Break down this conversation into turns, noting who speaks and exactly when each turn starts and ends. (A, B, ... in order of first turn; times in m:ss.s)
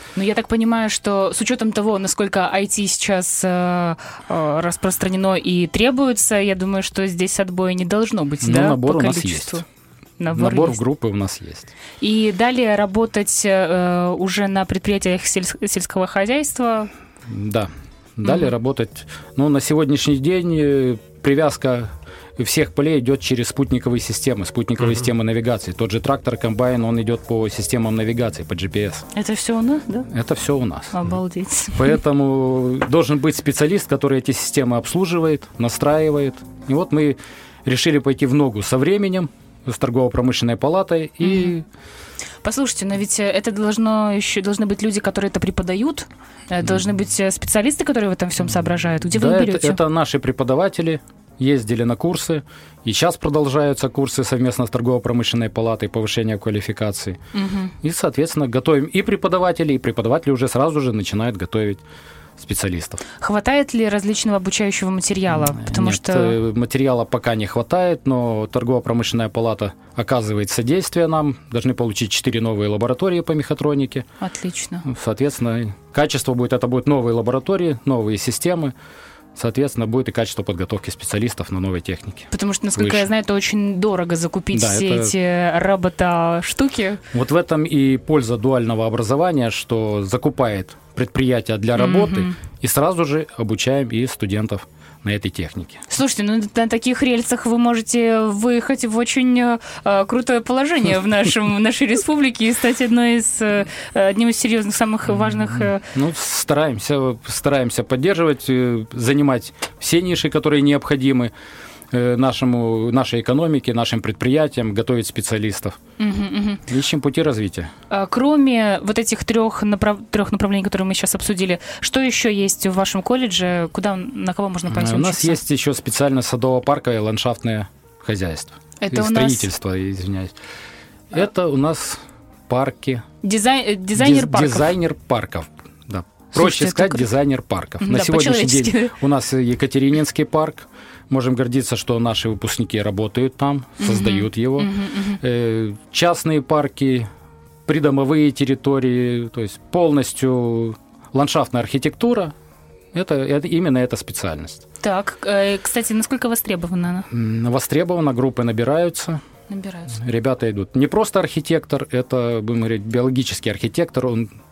0:00.2-0:09.6 A
0:08.4-0:09.6 B
0:10.2-0:10.8 A
0:10.3-0:11.7 B
0:12.0-0:16.9 A
0:17.3-0:29.0 B
0:18.2-0:18.5 A
0:29.1-0:30.1 A
0:30.1-0:31.0 B
0:30.9-0:32.0 A
0:31.8-0:41.6 B
0:41.2-0:41.5 A
0:42.4-0:49.8 A
0:49.1-0:57.2 B
0:57.3-0:57.7 A
0:57.8-1:01.8 B
1:02.4-1:03.0 B
1:03.2-1:06.4 A
1:05.3-1:14.0 B
1:14.2-1:14.8 A
1:14.8-1:18.7 B
1:19.3-1:23.1 B
1:22.3-1:27.0 A
1:24.5-1:25.1 B
1:27.1-1:35.8 B
1:31.7-1:32.3 A
1:35.9-1:45.8 A
1:45.3-1:51.3 B
1:51.9-1:55.8 B
1:56.0-1:56.6 A
1:56.7-1:57.7 B
1:57.9-2:05.4 A
2:04.7-2:10.3 B
2:08.8-2:09.5 A
2:11.1-2:13.0 B
2:13.2-2:14.8 A
2:13.9-2:24.7 B
2:16.3-2:17.1 A
2:17.8-2:18.9 A
2:23.8-2:25.2 A
2:25.2-2:27.1 B
2:27.6-2:32.3 B
2:32.9-2:34.6 B
2:34.8-2:37.1 A
2:37.1-2:39.2 B
2:39.5-2:40.0 A
2:40.0-2:44.3 B